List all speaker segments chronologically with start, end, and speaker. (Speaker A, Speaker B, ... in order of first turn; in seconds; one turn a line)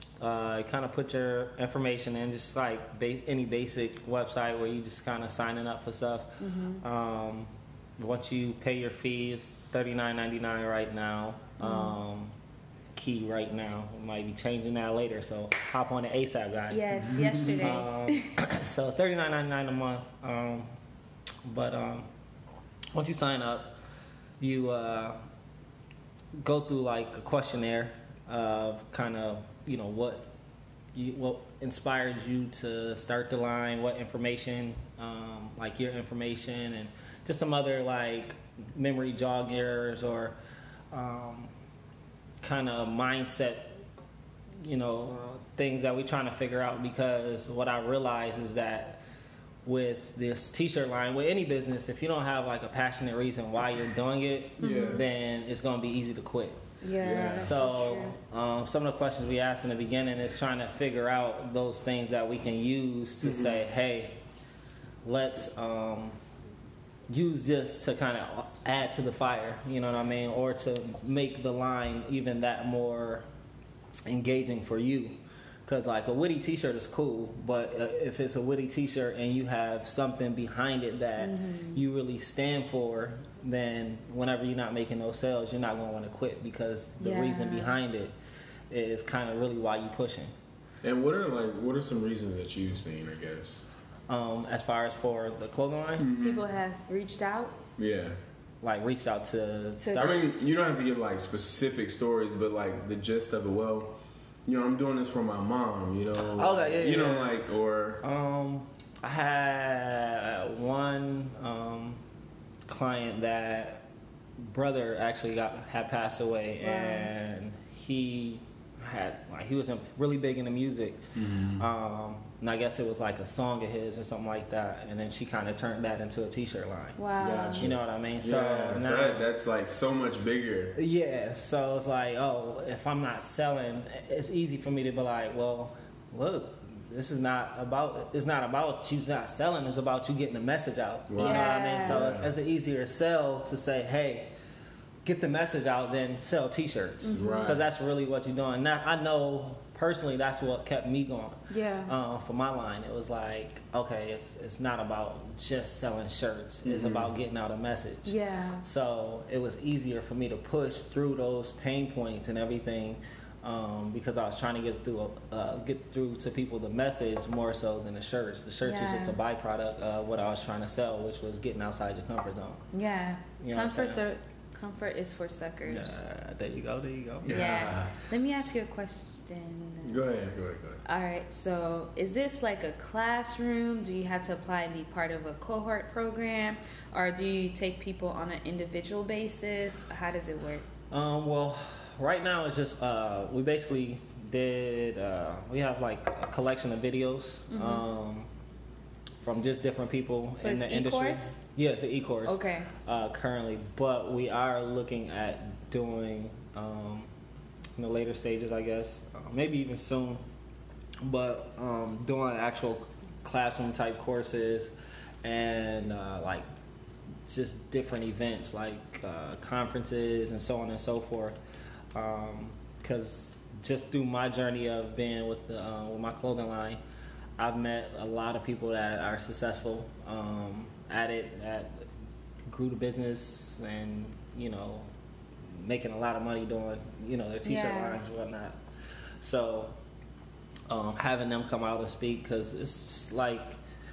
Speaker A: 0.2-12.3
Speaker B: 6.4-6.8
Speaker B: 11.6-12.0
Speaker A: 12.9-20.7
Speaker B: 16.7-18.3
Speaker C: 17.0-17.9
Speaker A: 21.4-22.1
Speaker A: 22.9-23.7
Speaker A: 24.4-25.2
Speaker A: 26.4-30.3
Speaker A: 30.9-40.4
Speaker A: 40.9-41.5
Speaker A: 42.4-43.8
Speaker A: 44.6-49.0
Speaker A: 49.6-56.6
Speaker B: 54.6-55.0
Speaker C: 54.6-55.0
Speaker B: 56.8-58.2
Speaker C: 57.0-57.6
Speaker A: 57.3-64.2
Speaker C: 63.2-63.6
Speaker A: 65.0-66.2
Speaker A: 67.1-73.3
Speaker A: 74.1-88.1
Speaker B: 81.2-81.8
Speaker B: 87.0-87.8
Speaker A: 88.7-90.3
Speaker C: 90.8-93.7
Speaker A: 94.1-96.1
Speaker C: 96.0-96.5
Speaker B: 96.1-97.6
Speaker C: 97.8-98.2
Speaker A: 98.6-100.2
Speaker B: 99.8-100.2
Speaker C: 100.0-108.0
Speaker A: 106.3-107.4
Speaker A: 108.0-112.0
Speaker A: 112.7-113.8
Speaker A: 114.4-121.0
Speaker B: 116.6-117.1
Speaker C: 121.2-121.7
Speaker A: 121.6-127.0
Speaker B: 127.0-127.7
Speaker C: 127.2-130.8
Speaker A: 127.6-129.3
Speaker A: 130.8-144.3
Speaker C: 141.1-142.3
Speaker B: 141.2-142.0
Speaker A: 145.0-172.6
Speaker B: 147.0-147.6
Speaker C: 147.1-147.6
Speaker B: 151.5-151.9
Speaker C: 156.7-157.1
Speaker B: 158.1-158.7
Speaker B: 168.6-169.2
Speaker B: 172.7-176.0
Speaker A: 173.4-174.0
Speaker A: 175.7-177.8
Speaker C: 177.2-177.9
Speaker B: 177.3-180.0
Speaker C: 179.8-180.8
Speaker B: 180.8-190.7
Speaker A: 190.9-198.3
Speaker B: 197.5-197.9
Speaker A: 199.2-207.1
Speaker B: 200.4-201.4
Speaker B: 202.3-202.7
Speaker A: 207.8-210.2
Speaker A: 211.0-216.5
Speaker A: 217.3-221.4
Speaker A: 221.9-226.8
Speaker A: 227.4-231.9
Speaker A: 232.5-234.9
Speaker A: 235.5-238.6
Speaker B: 237.4-238.0
Speaker A: 239.2-239.8
Speaker A: 240.7-243.6